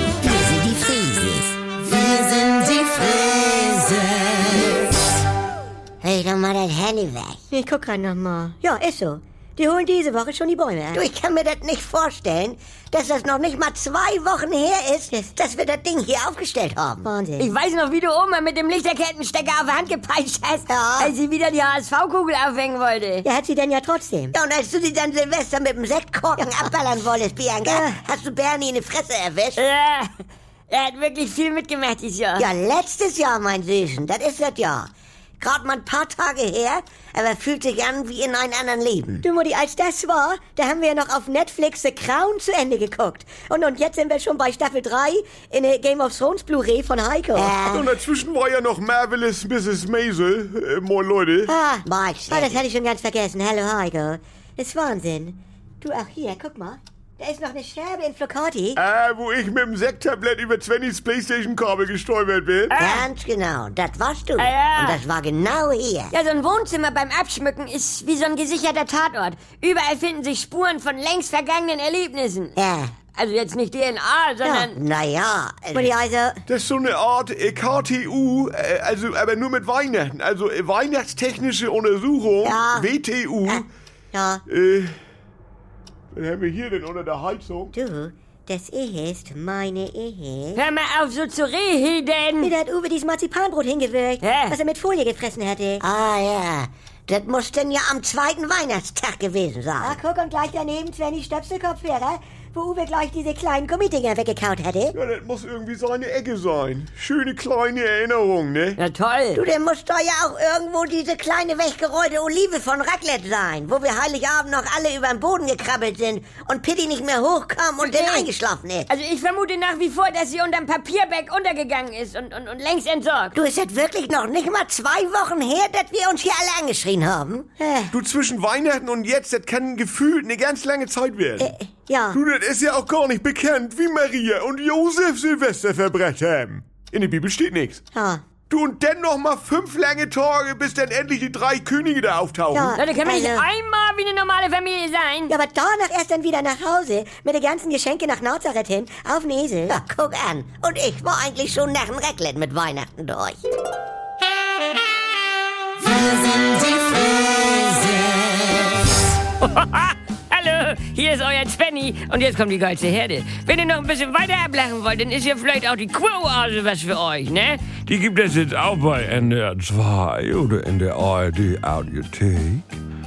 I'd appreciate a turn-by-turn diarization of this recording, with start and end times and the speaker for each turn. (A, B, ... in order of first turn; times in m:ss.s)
0:00.2-0:04.7 A
0:06.0-0:07.4 A
0:07.5-0:11.0 B
0:10.9-0:17.1 A
0:17.0-0:17.5 B
0:17.4-0:23.2 C
0:20.7-0:21.1 A
0:23.2-0:24.3 B
0:24.3-0:29.6 A
0:27.6-0:27.9 B
0:29.6-0:30.1 C
0:30.7-0:32.5 C
0:32.4-0:34.9 A
0:35.4-0:39.2 A
0:39.2-0:47.5 B
0:47.3-0:47.9 A
0:47.6-0:51.5 D
0:51.5-0:58.8 B
0:51.8-0:52.6 A
0:58.8-1:02.8 D
1:02.7-1:03.1 C
1:02.8-1:06.1 A
1:04.4-1:05.0 C
1:06.1-1:12.6 C
1:12.6-1:12.9 A
1:13.1-1:14.8 C
1:14.7-1:15.9 A
1:15.7-1:16.4 B
1:16.5-1:23.7 D
1:22.4-1:22.9 A
1:24.1-1:24.4 B
1:24.5-1:25.0 D
1:26.1-1:27.7 D
1:27.7-1:30.5 B
1:30.5-1:32.5 C
1:32.4-1:35.8 B
1:34.2-1:34.6 C
1:35.8-1:40.0 A
1:39.8-1:44.9 B
1:44.9-1:48.8 D
1:48.8-1:49.4 C
1:49.3-1:58.9 A
1:57.8-1:58.3 C
1:58.9-2:03.3 C
2:03.3-2:07.5 A
2:07.6-2:07.9 B
2:07.9-2:11.5 D
2:11.4-2:12.2 B
2:12.1-2:17.8 D
2:17.9-2:18.2 B
2:18.5-2:22.8 D
2:22.5-2:23.5 B
2:22.8-2:25.3 C
2:25.3-2:29.8 B
2:29.7-2:33.4 A
2:36.5-2:36.8 C
2:39.4-2:47.8 C
2:47.8-2:52.8 E